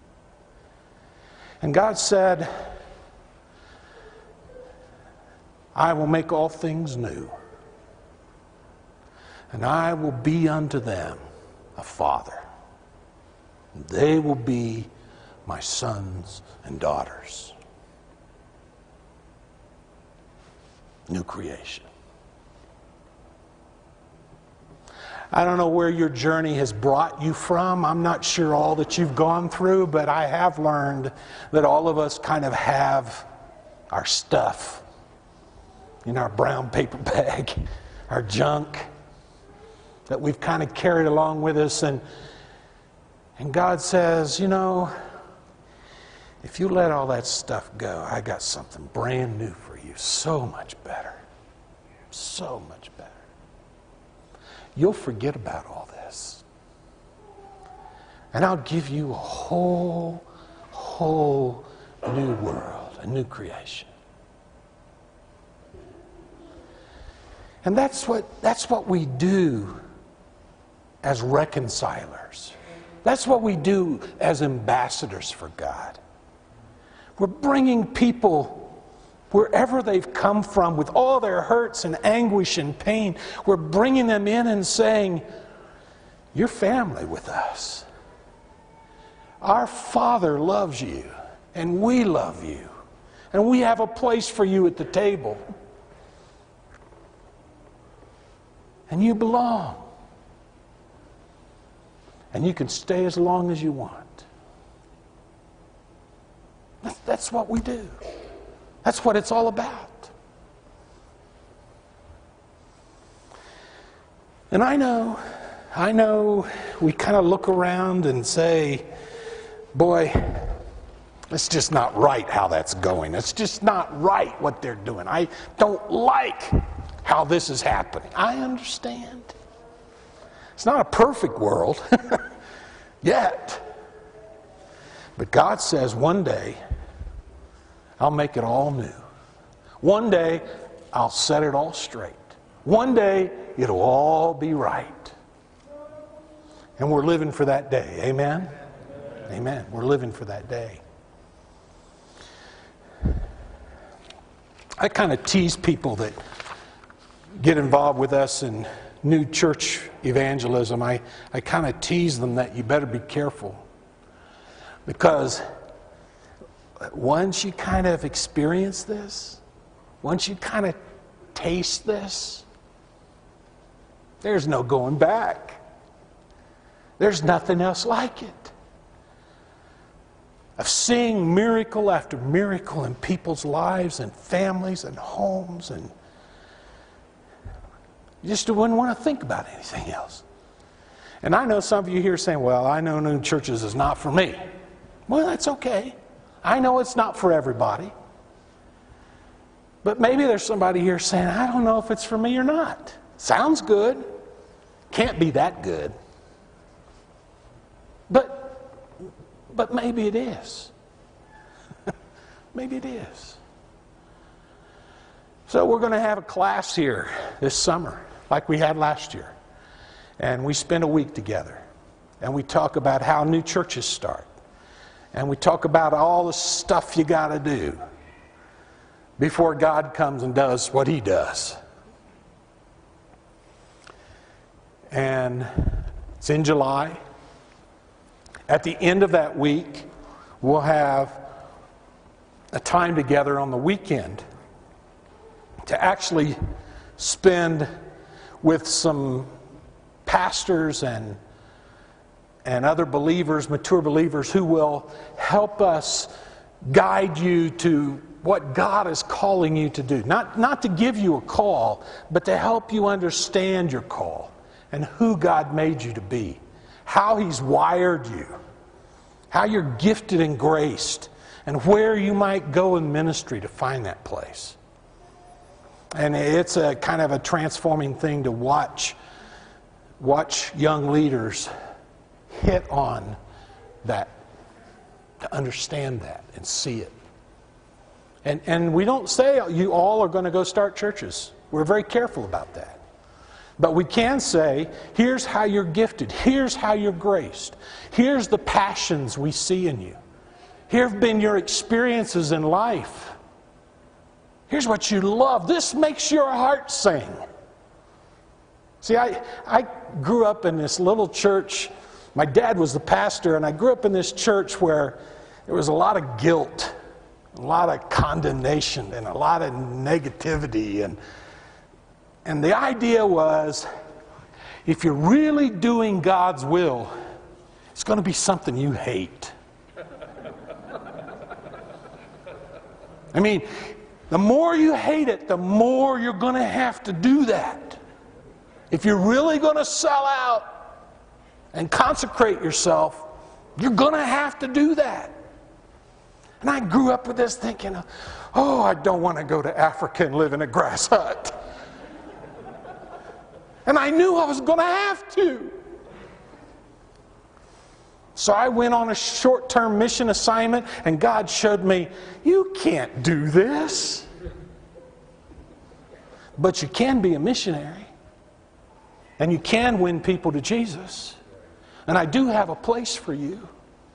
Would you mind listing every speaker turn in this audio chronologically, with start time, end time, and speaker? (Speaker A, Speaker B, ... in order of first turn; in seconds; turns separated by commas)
Speaker A: 1.6-2.7, Speaker A: 5.8-7.3, Speaker A: 9.5-11.2, Speaker A: 11.8-12.4, Speaker A: 13.7-14.9, Speaker A: 15.5-17.5, Speaker A: 21.1-21.9, Speaker A: 25.3-33.3, Speaker A: 33.9-34.8, Speaker A: 36.0-38.9, Speaker A: 40.1-42.0, Speaker A: 43.4-44.9, Speaker A: 46.4-51.2, Speaker A: 52.1-53.2, Speaker A: 54.8-56.4, Speaker A: 58.3-63.9, Speaker A: 67.6-69.8, Speaker A: 71.0-76.0, Speaker A: 77.2-78.8, Speaker A: 79.3-85.2, Speaker A: 86.3-87.9, Speaker A: 89.4-92.7, Speaker A: 93.3-95.4, Speaker A: 98.9-99.9, Speaker A: 102.3-104.3, Speaker A: 106.8-108.0, Speaker A: 108.8-110.1, Speaker A: 114.5-118.9, Speaker A: 119.7-120.6, Speaker A: 121.3-129.3, Speaker A: 130.6-132.2, Speaker A: 133.0-133.6, Speaker A: 135.2-136.6, Speaker A: 138.0-139.0, Speaker A: 139.8-145.2, Speaker A: 146.8-148.5, Speaker A: 149.3-150.8, Speaker A: 154.8-156.2, Speaker A: 157.4-163.6, Speaker A: 164.9-165.4, Speaker A: 166.9-169.4, Speaker A: 170.0-170.8, Speaker A: 171.3-172.5, Speaker A: 174.2-175.6, Speaker A: 177.0-178.5, Speaker A: 180.6-185.9, Speaker A: 188.2-190.2, Speaker A: 191.2-194.4, Speaker A: 195.1-197.9, Speaker A: 199.8-204.1, Speaker A: 204.9-205.9, Speaker A: 208.1-208.8, Speaker A: 209.5-210.7, Speaker A: 212.5-213.4, Speaker A: 215.5-219.3, Speaker A: 220.2-221.7, Speaker A: 222.2-224.3, Speaker A: 225.1-227.8, Speaker A: 229.2-231.6, Speaker A: 234.9-237.0, Speaker A: 238.5-239.9, Speaker A: 240.4-241.2, Speaker A: 242.5-244.2, Speaker A: 245.7-246.4, Speaker A: 247.0-247.7, Speaker A: 248.4-249.3, Speaker A: 250.1-251.2, Speaker A: 252.4-256.1, Speaker A: 256.6-268.4, Speaker A: 269.3-274.6, Speaker A: 275.9-279.0, Speaker A: 280.0-281.5, Speaker A: 282.3-283.2, Speaker A: 283.8-284.1, Speaker A: 285.2-286.9, Speaker A: 288.2-292.8, Speaker A: 293.6-300.0, Speaker A: 300.7-303.2, Speaker A: 304.5-307.2, Speaker A: 308.8-316.7, Speaker A: 317.4-321.0, Speaker A: 322.2-323.7, Speaker A: 324.6-326.9, Speaker A: 327.7-329.3, Speaker A: 333.1-337.8, Speaker A: 338.7-340.5, Speaker A: 341.5-345.1, Speaker A: 346.4-351.4, Speaker A: 353.7-355.5, Speaker A: 358.2-364.1, Speaker A: 366.4-367.9, Speaker A: 369.2-371.2, Speaker A: 371.9-373.5